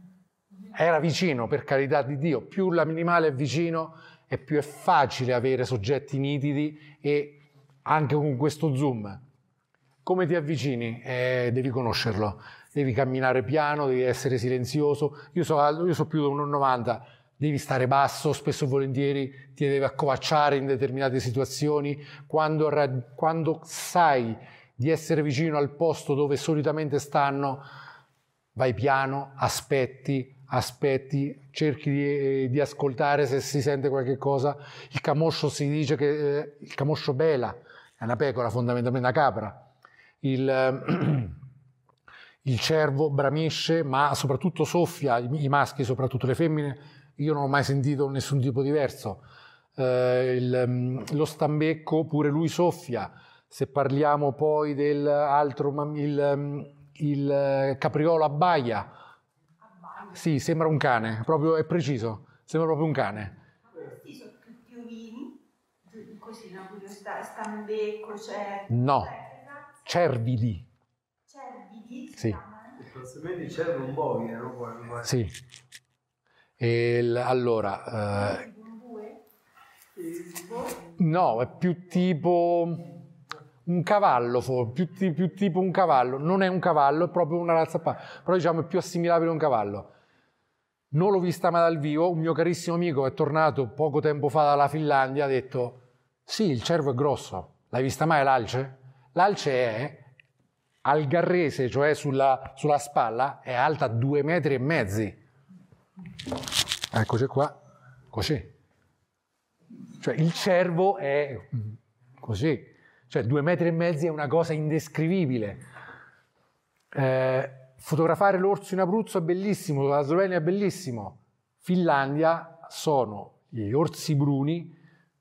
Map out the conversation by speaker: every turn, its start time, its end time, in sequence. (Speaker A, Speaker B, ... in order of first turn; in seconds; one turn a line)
Speaker A: 0.7-9.2
Speaker A: 10.0-27.6
Speaker A: 28.6-39.7
Speaker A: 40.2-41.4
Speaker A: 42.4-49.2
Speaker A: 49.8-58.9
Speaker A: 60.1-63.4
Speaker B: 63.8-65.3
Speaker B: 65.9-69.7
Speaker A: 68.7-69.2
Speaker A: 69.8-70.7
Speaker B: 71.3-72.7
Speaker C: 72.9-75.0
Speaker A: 75.0-75.3
Speaker A: 76.6-78.5
Speaker B: 78.6-79.2
Speaker A: 81.0-82.9
Speaker A: 83.7-89.9
Speaker A: 90.9-100.1
Speaker A: 100.8-105.2
Speaker A: 106.9-107.6
Speaker A: 108.1-108.5
Speaker A: 110.0-115.6
Speaker A: 116.9-124.8